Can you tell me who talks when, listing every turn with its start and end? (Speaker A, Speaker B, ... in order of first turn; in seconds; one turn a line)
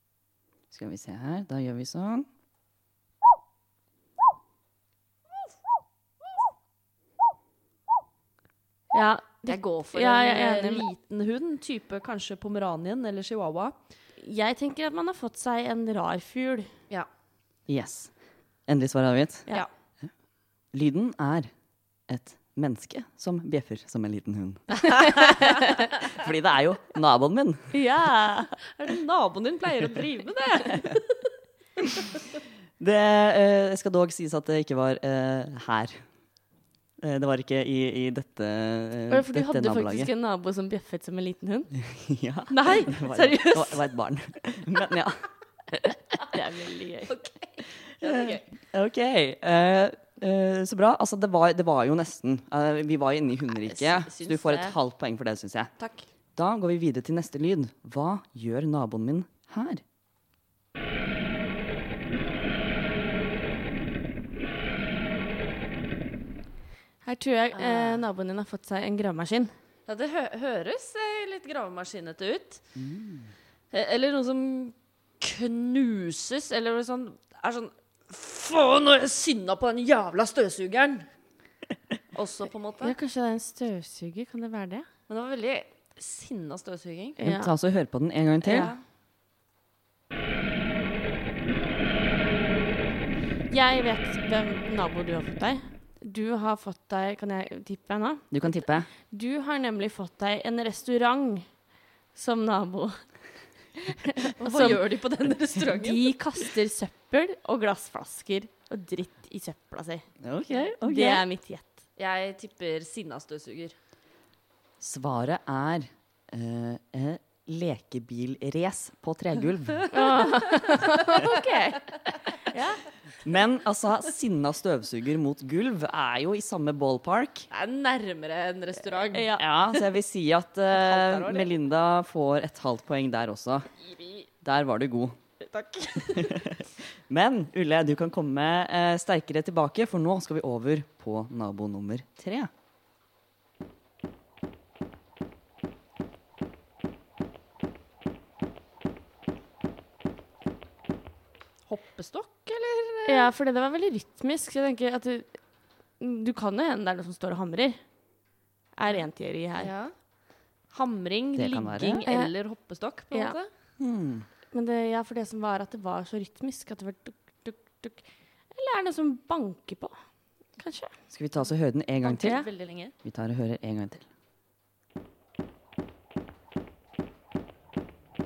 Speaker A: 0.7-2.3
Speaker B: 8.9-10.8
Speaker C: 9.5-13.8
Speaker B: 14.2-16.7
Speaker A: 17.7-18.1
Speaker A: 18.7-19.5
Speaker A: 20.7-21.5
Speaker A: 22.1-27.7
Speaker B: 25.3-25.7
Speaker B: 27.7-28.6
Speaker C: 28.7-31.3
Speaker A: 32.8-36.0
Speaker A: 37.0-40.1
Speaker B: 39.1-41.7
Speaker A: 41.8-45.2
Speaker B: 42.5-43.7
Speaker C: 42.6-43.3
Speaker B: 46.1-47.1
Speaker C: 47.1-48.5
Speaker A: 48.0-55.7
Speaker C: 53.6-54.8
Speaker C: 55.8-56.1
Speaker A: 56.4-59.8
Speaker B: 67.0-69.5
Speaker C: 67.5-68.0
Speaker C: 69.9-72.6
Speaker A: 72.8-73.3
Speaker C: 73.7-81.1
Speaker C: 82.1-83.0
Speaker B: 82.8-84.9
Speaker C: 85.1-87.2
Speaker B: 87.2-87.5
Speaker A: 87.2-88.7
Speaker C: 88.4-88.8
Speaker B: 93.5-98.4
Speaker A: 98.3-98.9
Speaker B: 99.1-101.5
Speaker B: 102.2-103.0
Speaker B: 103.8-104.8
Speaker C: 104.4-106.4
Speaker B: 105.7-110.1
Speaker A: 110.2-111.2
Speaker B: 110.8-111.8
Speaker C: 112.0-113.7
Speaker A: 114.8-119.9
Speaker B: 119.9-122.8
Speaker A: 123.2-127.5
Speaker C: 127.5-129.4
Speaker B: 129.1-129.8
Speaker A: 129.4-133.7
Speaker C: 130.7-131.5
Speaker C: 133.8-134.3
Speaker A: 134.4-135.2
Speaker C: 135.4-136.4
Speaker A: 136.2-142.5
Speaker C: 151.7-153.3
Speaker B: 153.1-155.3
Speaker B: 156.0-157.8
Speaker B: 158.8-159.7
Speaker C: 159.6-159.9
Speaker C: 160.7-163.5
Speaker A: 161.3-162.0
Speaker B: 162.1-162.3
Speaker A: 163.8-164.3
Speaker B: 164.5-170.0
Speaker B: 170.6-170.9
Speaker A: 171.1-172.4
Speaker C: 172.0-172.9
Speaker B: 172.2-172.5
Speaker A: 173.0-174.1